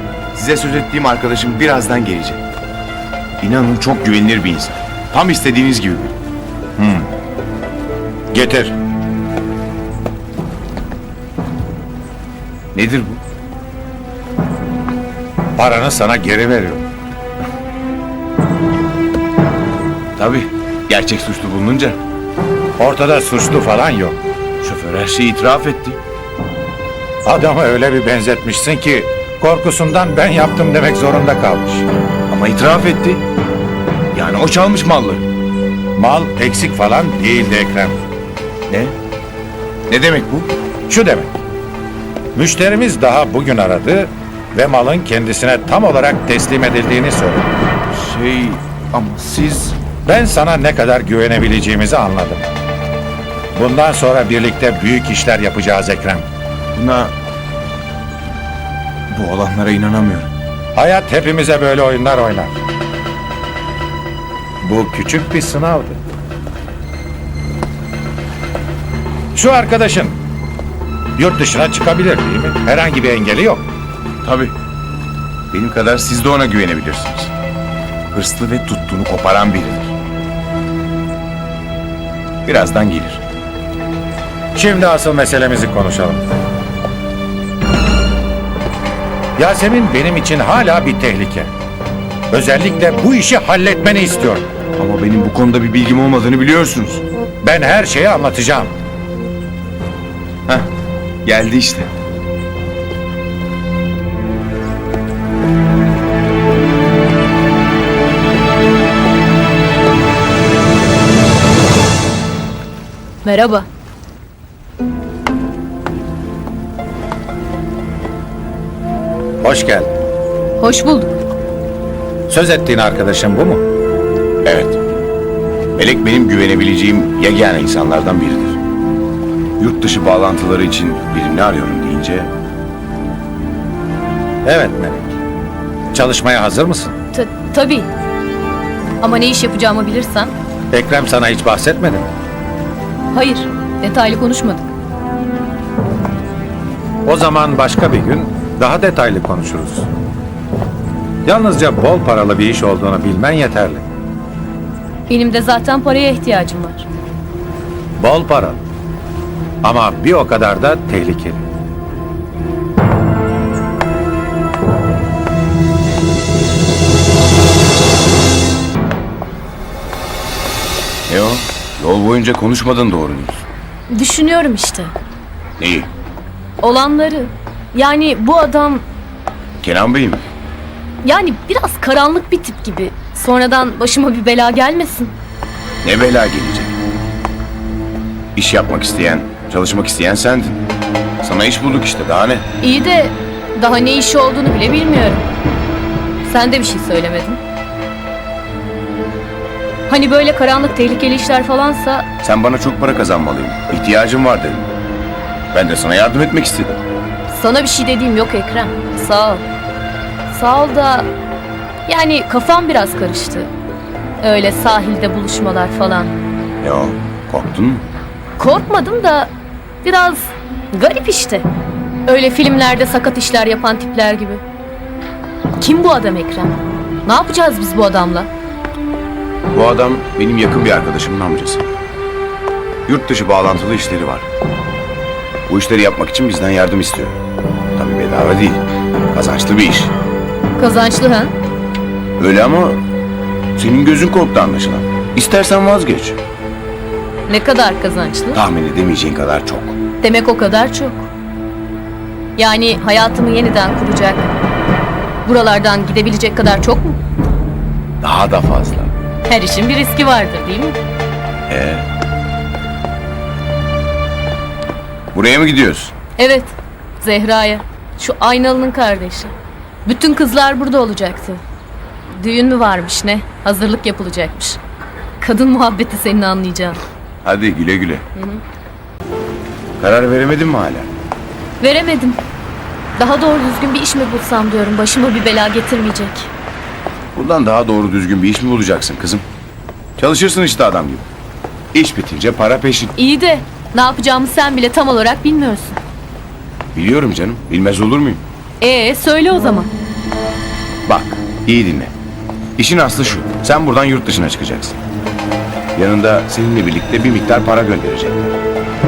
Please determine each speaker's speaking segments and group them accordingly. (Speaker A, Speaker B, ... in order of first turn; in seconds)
Speaker A: 0.3-2.4, 3.4-6.1, 12.7-13.2, 20.2-22.0, 24.6-26.0, 32.3-33.2, 34.1-35.2, 38.7-39.0, 39.9-40.5, 47.9-49.8, 56.7-57.1, 59.1-60.3, 74.2-74.5, 75.5-77.3, 78.1-79.9, 82.5-83.2, 94.8-97.0, 101.2-101.9, 124.4-124.8, 125.8-128.6, 129.6-132.3, 171.1-173.4, 175.6-175.9, 179.6-180.2, 185.8-186.8, 188.3-190.6, 191.2-192.4, 202.2-204.7, 205.5-206.8, 216.6-217.8, 229.5-231.7, 232.9-234.3, 235.5-237.2, 237.8-239.9, 242.2-242.8, 243.6-246.2, 248.3-249.8, 258.0-258.9, 261.5-261.9, 265.1-265.9, 277.2-278.0, 279.8-280.9, 287.1-289.2, 290.0-291.1, 291.7-292.9, 296.7-298.2, 300.9-301.9, 302.6-304.8, 305.8-308.4
Speaker B: 6.8-7.1, 8.3-8.8, 15.6-16.8, 22.8-24.2, 27.2-31.9, 36.0-38.0, 40.9-41.4, 42.4-47.5, 50.1-52.5, 53.5-56.3, 60.8-62.6, 64.6-66.0, 69.3-70.2, 71.2-73.7, 84.5-86.2, 89.4-91.5, 92.3-94.5, 97.4-98.7, 119.4-119.9, 122.3-123.6, 134.4-135.2, 135.9-136.9, 140.7-142.1, 147.1-149.9, 151.2-153.8, 158.0-158.6, 159.6-161.4
Speaker C: 113.2-113.7, 120.6-121.2, 137.1-137.9, 139.0-140.3, 143.1-144.7, 155.1-156.9, 173.9-174.9, 176.6-178.8, 181.0-185.1, 192.6-195.3, 196.2-197.4, 199.9-202.1, 207.3-209.4, 210.3-211.1, 211.9-213.5, 214.2-216.1, 218.4-219.3, 219.8-221.5, 222.1-224.4, 225.6-228.3, 240.6-241.3, 247.3-248.4, 250.0-251.1, 252.4-254.3, 255.2-257.0, 259.3-260.8, 266.2-269.3, 269.9-271.4, 272.1-274.6, 275.2-276.8, 278.1-278.4, 281.6-282.2, 283.0-286.3, 293.0-295.8, 298.6-299.7